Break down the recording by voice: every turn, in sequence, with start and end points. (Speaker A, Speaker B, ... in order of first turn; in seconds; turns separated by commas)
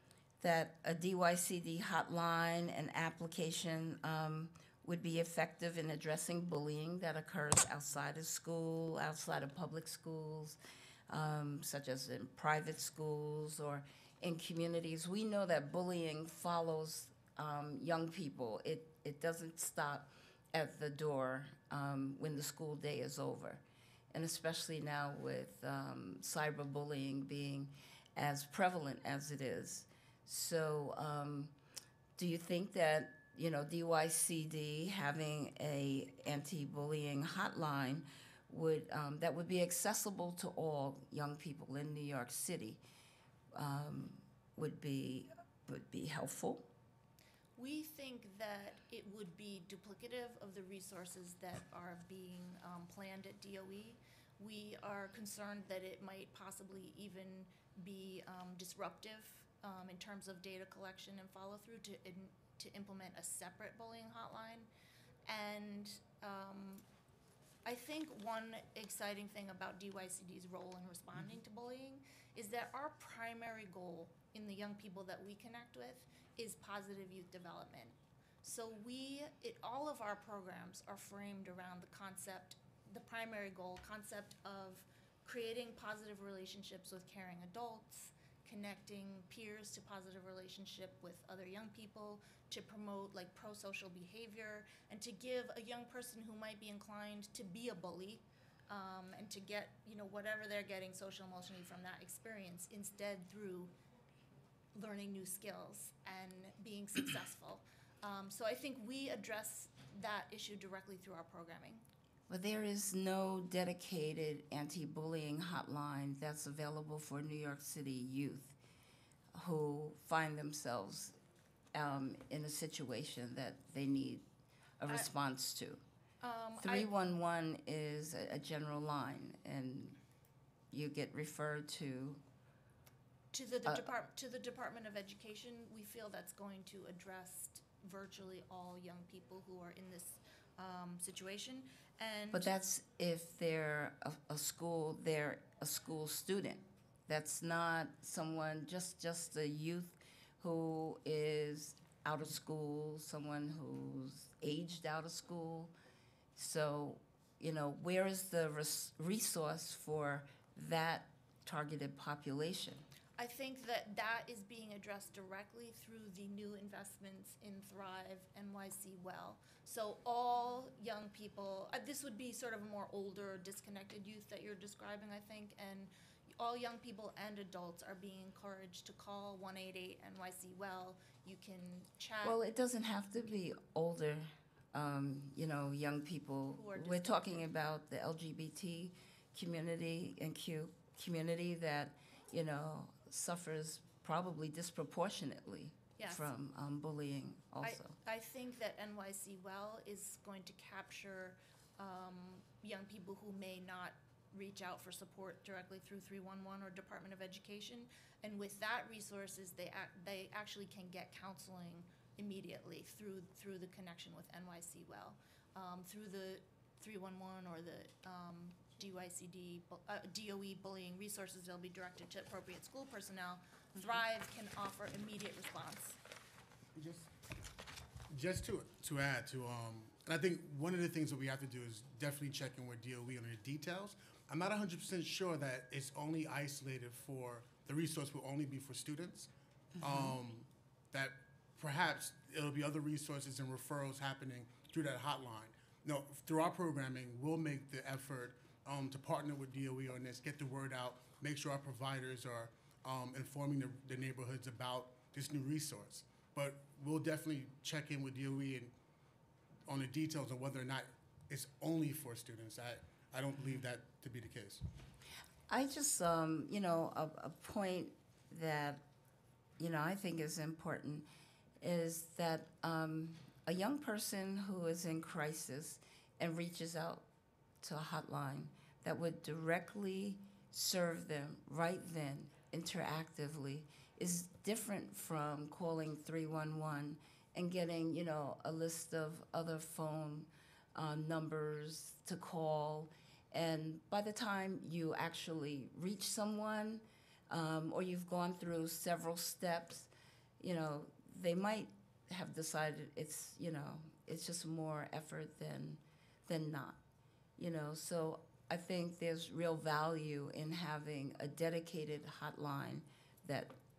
Speaker A: 0.4-31.5, Speaker A: 32.2-42.8, Speaker A: 43.5-46.7, Speaker B: 47.6-64.7, Speaker B: 65.3-66.9, Speaker B: 67.7-103.8, Speaker B: 104.8-111.8, Speaker A: 112.3-118.6, Speaker A: 119.3-121.2, Speaker A: 121.7-124.2, Speaker A: 124.8-125.8, Speaker B: 126.2-126.9, Speaker A: 126.6-130.0, Speaker A: 130.7-132.2, Speaker B: 133.3-142.5, Speaker A: 133.7-133.9, Speaker A: 142.3-155.7, Speaker A: 156.4-162.8, Speaker B: 163.2-182.4, Speaker A: 182.2-198.0, Speaker B: 186.6-187.5, Speaker B: 196.0-196.3, Speaker B: 197.6-226.0, Speaker C: 226.8-227.1, Speaker C: 228.1-239.3, Speaker A: 239.8-240.2, Speaker C: 239.8-258.7, Speaker C: 259.7-264.6, Speaker A: 265.5-268.8, Speaker A: 269.6-271.1, Speaker A: 271.6-277.1, Speaker A: 277.6-306.8, Speaker A: 307.4-313.6